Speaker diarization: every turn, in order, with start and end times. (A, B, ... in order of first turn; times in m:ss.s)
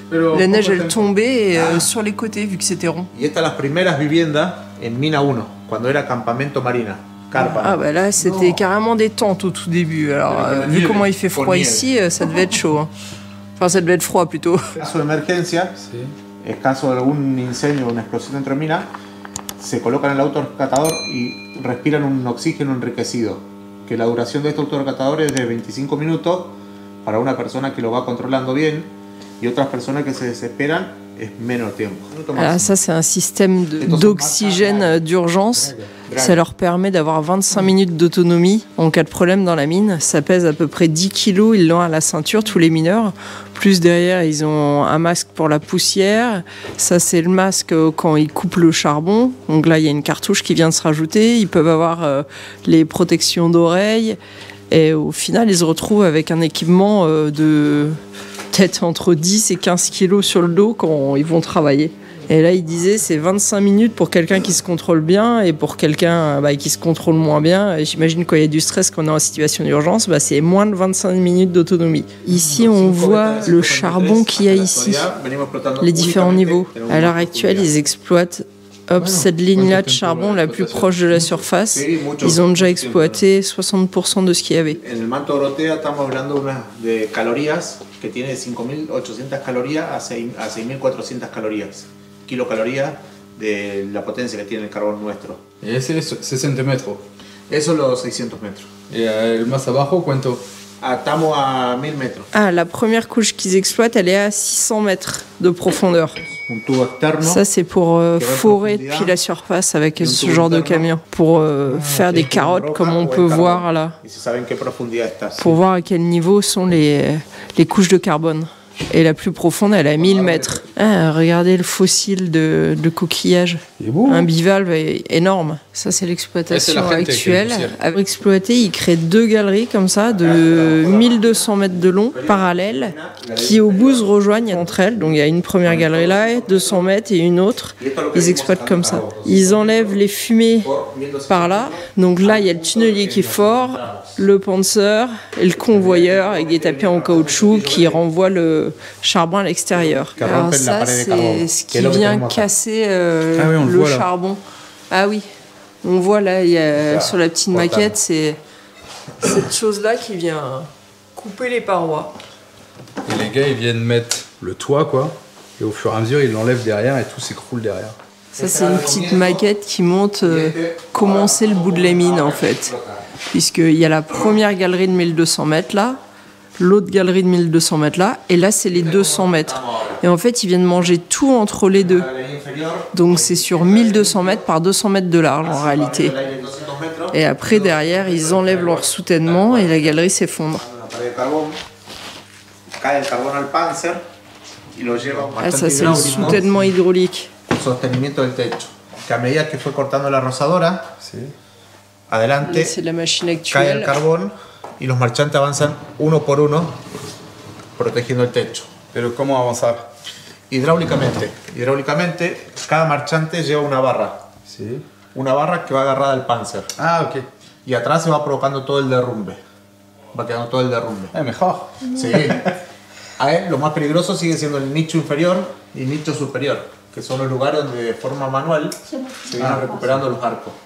0:00.1-0:01.1 A
0:00.3-0:03.1 B
0:01.5-0:01.9 C
0:03.1-0:07.8 C
0:07.4-0:12.9 B
0:08.2-0:08.5 A
0:10.3-0:11.0 A
0:10.4-0:11.9 C
0:13.6-0:14.8 B
0:14.8-0:15.8 C
0:15.8-0:16.1 A
0:16.4-0:18.9 C
0:19.6-0:32.7 C
0:32.4-0:54.2 B
0:33.8-0:36.4 C
0:54.7-0:58.0 B
0:58.5-1:15.1 B
1:12.4-1:17.8 C
1:15.8-1:24.8 B
1:19.0-1:21.4 A
1:21.7-1:23.2 C
1:24.8-1:35.4 C
1:35.6-1:37.0 A
1:37.5-1:38.7 C
1:38.9-1:40.4 A
1:40.8-1:42.3 C
1:42.3-1:46.2 B
1:46.3-1:47.4 C
1:47.2-1:54.0 B
1:48.2-1:49.2 C
1:50.0-1:50.9 C
1:51.6-1:55.6 C
1:55.4-2:20.7 B
1:59.8-2:00.8 C
2:03.8-2:04.3 A
2:06.5-2:07.8 A
2:10.0-2:16.9 C
2:17.8-2:20.0 C
2:20.6-2:24.2 C
2:21.3-2:35.2 B
2:25.6-2:28.0 C
2:30.2-2:32.5 C
2:33.4-2:34.1 A
2:35.8-2:38.4 B
2:36.8-2:37.9 C
2:39.2-2:42.1 B
2:43.0-2:47.9 A
2:48.4-2:49.4 C
2:48.4-2:52.7 B
2:50.2-2:53.0 C
2:53.3-2:56.0 B
2:56.6-3:02.1 B
2:58.7-3:00.0 C
3:01.7-3:04.4 C
3:02.9-3:06.2 B
3:05.4-3:10.0 C
3:07.1-3:10.6 B
3:10.6-3:11.6 C
3:12.8-3:14.0 C
3:14.7-3:16.4 C
3:15.2-3:16.7 A
3:15.4-3:17.3 B
3:17.5-3:20.9 C
3:21.0-3:21.3 A
3:22.1-3:22.8 C
3:22.4-3:23.9 B
3:23.5-3:26.8 C
3:27.8-3:28.7 C
3:28.9-3:29.9 A
3:30.5-3:34.2 C
3:34.4-3:34.8 A
3:35.1-3:36.7 C
3:36.8-3:37.3 A
3:37.6-3:39.4 C
3:40.1-3:41.2 C
3:41.1-3:42.5 A
3:41.9-3:42.5 C
3:43.2-3:50.6 C
3:49.3-3:50.0 A